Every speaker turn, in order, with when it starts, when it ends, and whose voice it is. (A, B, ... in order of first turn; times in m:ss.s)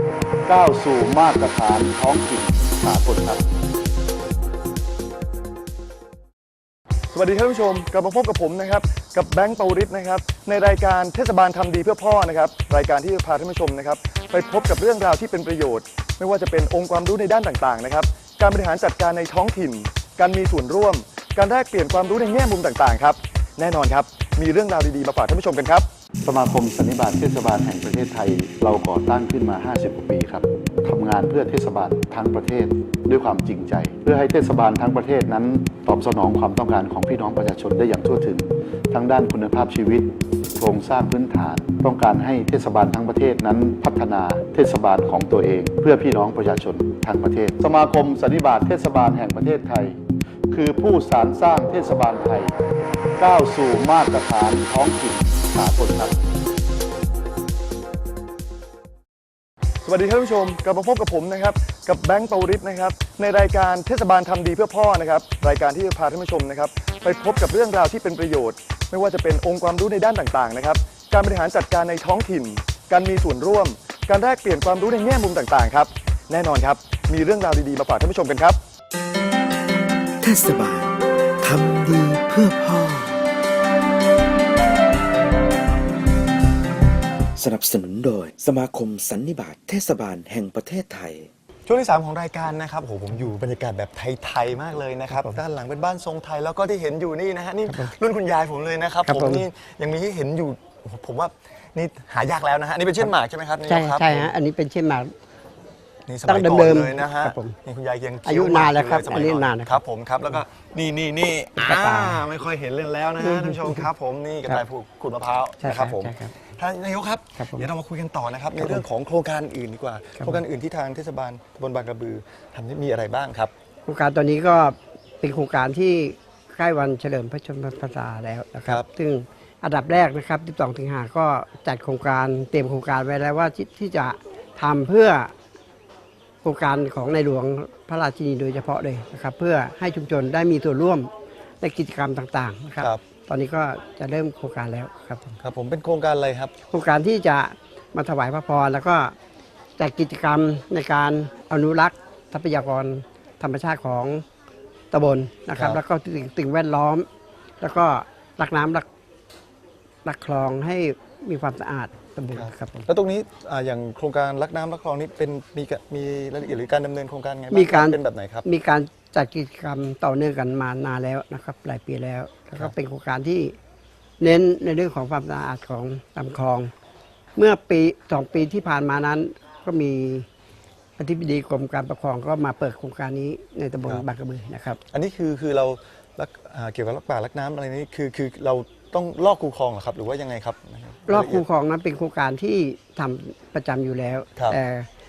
0:00.5-0:03.4 A
0:07.1-0:25.9 B
0:26.2-0:40.1 A
0:40.6-0:50.0 A
0:50.5-0:52.5 A
0:53.2-0:56.2 A
0:59.8-1:18.6 B
1:20.2-1:23.2 C
1:27.4-1:31.3 C
1:31.7-1:44.3 B
1:37.7-1:37.9 D
1:39.0-1:39.4 D
1:43.7-1:45.1 D
1:46.1-2:03.5 B
1:46.2-1:47.6 D
1:48.2-1:49.8 D
1:51.6-1:52.2 D
1:53.2-1:53.9 D
1:55.6-1:56.3 D
1:57.4-1:57.7 D
1:58.6-1:58.8 D
2:03.9-2:15.3 D
2:16.4-2:25.4 D
2:25.4-2:26.5 B
2:26.7-2:29.2 D
2:29.8-2:34.2 D
2:34.9-2:37.1 D
2:35.5-2:35.8 B
2:37.6-2:38.9 D
2:40.0-2:42.9 D
2:42.4-2:48.4 B
2:47.5-2:53.6 D
2:54.2-2:56.7 D
2:57.4-3:00.3 D
3:01.0-3:04.8 D
3:04.9-3:11.4 B
3:11.1-3:14.9 D